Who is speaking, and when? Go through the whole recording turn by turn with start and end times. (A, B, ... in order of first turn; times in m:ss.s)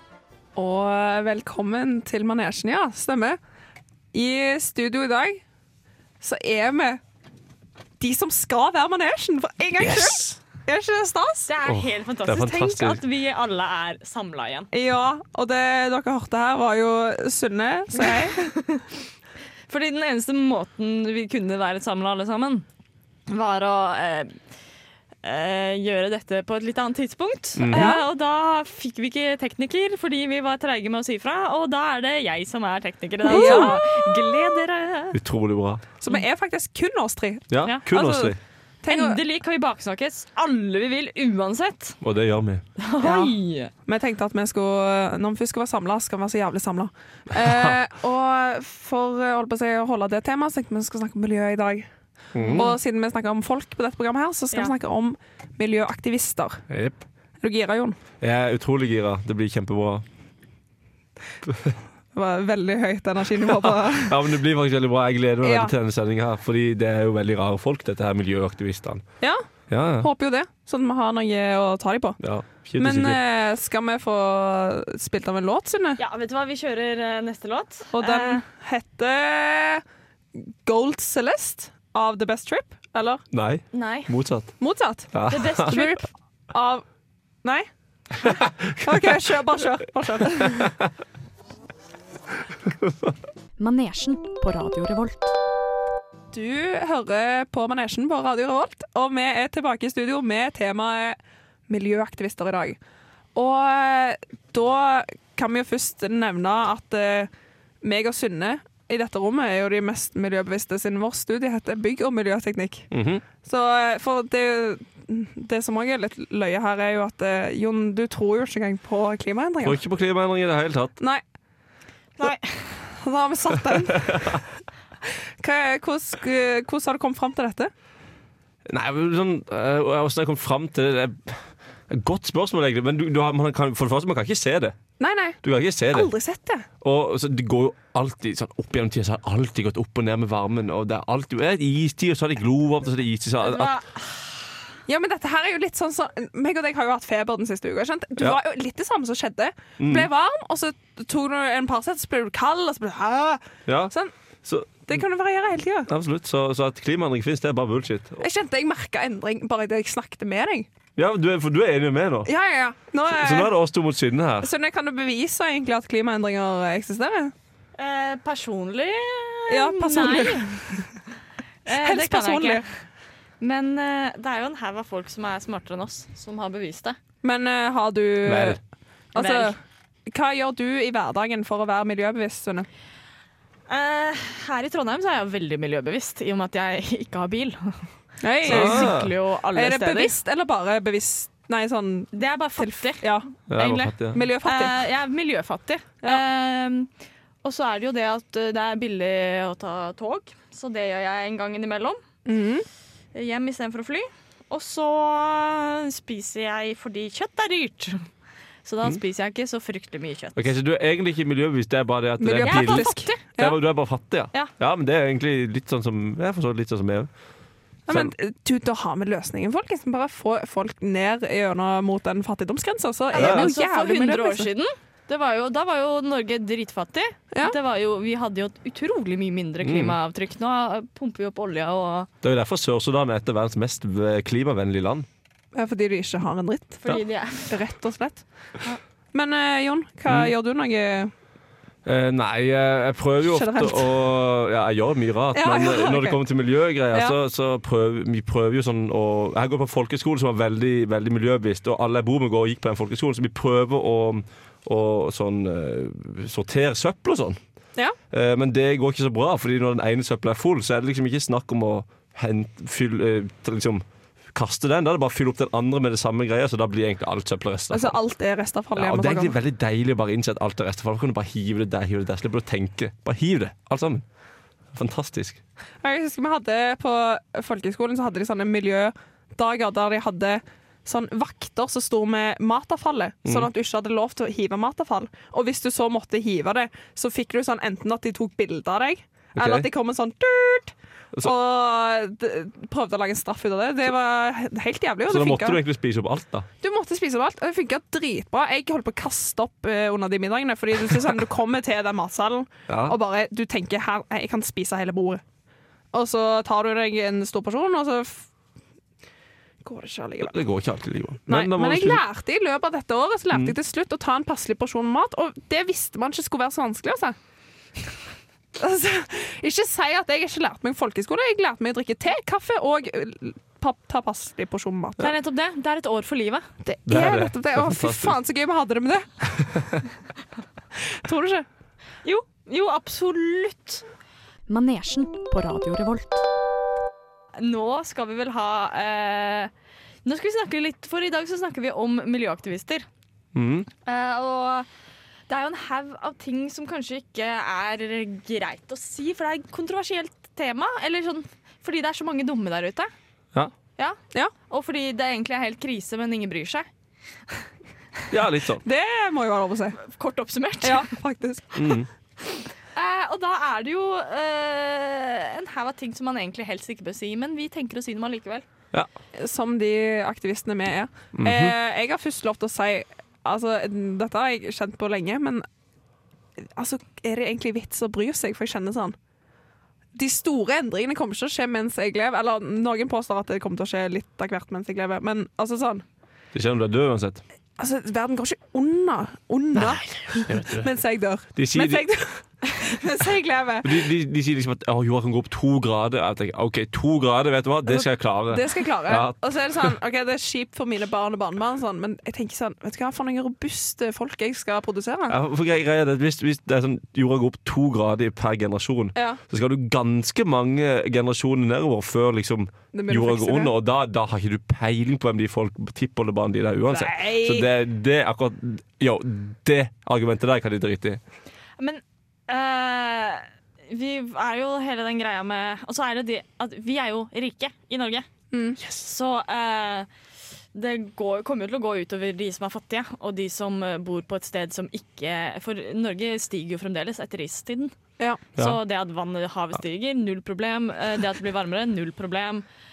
0:00.6-0:03.4 A
0:04.1-0:05.4 A
0:06.2-0:07.0 A
0:08.0-0:11.5 A
0:09.8-0:10.4 B
0:11.5-0:14.7 C
0:11.6-0:13.0 B
0:14.7-0:18.5 A
0:17.9-0:18.8 C
0:19.7-0:22.6 C
0:23.3-0:24.4 C
0:25.2-0:35.2 C
0:27.6-0:27.9 B
0:27.7-0:28.0 A
0:33.2-0:33.8 A
0:35.1-0:35.8 B
0:36.0-0:39.2 A
0:37.5-0:38.4 B
0:38.9-0:42.0 C
0:42.0-0:42.6 B
0:42.8-0:43.7 C
0:43.0-0:43.3 A
0:43.8-0:51.9 A
0:47.3-0:47.7 B
0:52.3-0:52.7 B
0:52.4-0:52.7 C
0:52.5-0:56.6 A
0:56.7-0:57.0 B
0:57.4-0:58.0 A
0:58.2-1:00.0 B
1:01.5-1:01.7 B
1:02.1-1:04.3 A
1:03.5-1:09.0 B
1:05.4-1:05.7 A
1:09.7-1:10.1 B
1:10.0-1:12.2 A
1:12.2-1:13.2 B
1:12.8-1:16.0 A
1:16.0-1:18.4 C
1:17.9-1:19.8 A
1:20.4-1:23.2 A
1:23.3-1:24.5 B
1:23.7-1:24.1 C
1:24.6-1:26.8 A
1:25.1-1:25.7 B
1:25.3-1:26.0 C
1:28.2-1:29.0 B
1:28.8-1:30.8 A
1:30.4-1:30.9 B
1:32.8-1:33.1 B
1:33.6-1:35.4 D
1:36.3-1:41.2 A
1:41.7-1:42.8 A
1:43.3-1:47.3 A
1:47.8-1:52.9 A
1:52.9-1:53.2 B
1:53.4-1:59.8 A
1:59.6-2:00.9 B
2:02.2-2:02.8 C
2:02.9-2:04.3 A
2:04.0-2:04.4 B
2:05.4-2:07.7 A
2:08.6-2:14.8 B
2:15.0-2:16.6 A
2:15.4-2:16.1 B
2:16.8-2:23.7 B
2:23.4-2:24.5 C
2:24.9-2:34.1 A
2:29.8-2:30.1 B
2:33.6-2:33.9 B
2:34.4-2:35.0 B
2:34.8-2:35.9 A
2:35.9-2:38.2 B
2:38.2-2:40.7 A
2:41.0-2:42.3 B
2:42.2-2:43.5 A
2:43.1-2:44.5 B
2:44.4-2:47.3 A
2:47.8-2:50.6 C
2:49.5-2:50.8 A
2:51.6-2:52.6 C
2:51.7-2:52.6 A
2:53.4-2:57.0 C
2:57.2-2:58.6 A
2:58.2-2:58.6 B
2:59.1-3:02.7 A
2:59.2-2:59.5 C
3:03.7-3:07.9 C
3:08.2-3:09.0 A
3:08.4-3:10.1 C
3:08.5-3:09.1 B
3:09.5-3:13.3 A
3:12.1-3:16.9 C
3:13.5-3:14.2 B
3:14.1-3:14.8 A
3:17.4-3:22.0 C
3:22.2-3:22.6 A
3:23.1-3:28.1 C
3:28.6-3:30.5 C
3:30.4-3:37.1 B
3:32.2-3:33.5 A
3:32.4-3:33.5 C
3:37.9-3:44.5 A
3:43.1-3:52.1 C
3:43.2-3:43.5 B
3:49.6-3:49.9 B
3:52.2-3:55.1 B
3:55.5-3:56.8 A
3:56.8-3:57.6 C
3:57.4-3:58.2 A
3:59.1-4:01.1 A
4:00.1-4:00.3 B
4:01.8-4:17.4 B
4:03.2-4:03.9 A
4:05.3-4:06.2 A
4:18.1-4:28.0 B
4:27.7-4:29.4 A
4:28.7-4:34.0 B
4:34.7-4:35.4 B
4:35.8-4:55.6 A
4:49.4-4:49.7 B
4:55.1-4:56.4 B
4:56.6-5:05.2 A
5:02.7-5:03.0 B
5:05.9-5:08.3 A
5:09.6-5:10.4 A
5:10.2-5:12.0 B
5:11.3-5:17.2 A
5:18.5-5:25.1 A
5:25.0-5:26.5 C
5:26.6-5:29.6 A
5:26.8-5:28.2 B
5:29.5-5:29.8 B
5:30.8-5:31.5 A
5:32.0-5:33.8 C
5:34.5-5:36.3 D
5:37.4-5:39.5 C
5:40.0-5:42.8 C
5:43.3-5:43.7 B
5:43.8-5:44.7 C
5:45.3-5:52.9 C
5:54.5-5:56.7 C
5:58.1-5:58.6 B
5:58.6-5:59.8 A
5:59.8-6:00.9 C
6:00.6-6:01.8 A
6:01.6-6:01.9 B
6:02.7-6:08.4 C
6:09.1-6:15.4 A
6:11.2-6:11.5 B
6:16.4-6:19.0 A
6:19.9-6:25.8 A
6:26.3-6:27.2 B
6:27.6-6:33.9 A
6:30.3-6:30.7 B
6:31.3-6:31.8 B
6:33.6-6:39.7 B
6:37.6-6:45.2 A
6:45.1-7:01.0 B
6:52.7-6:53.5 A
6:56.7-6:57.5 A
7:01.6-7:08.1 C
7:08.3-7:08.6 A
7:08.7-7:09.9 C
7:10.5-7:17.7 C
7:18.4-7:22.4 C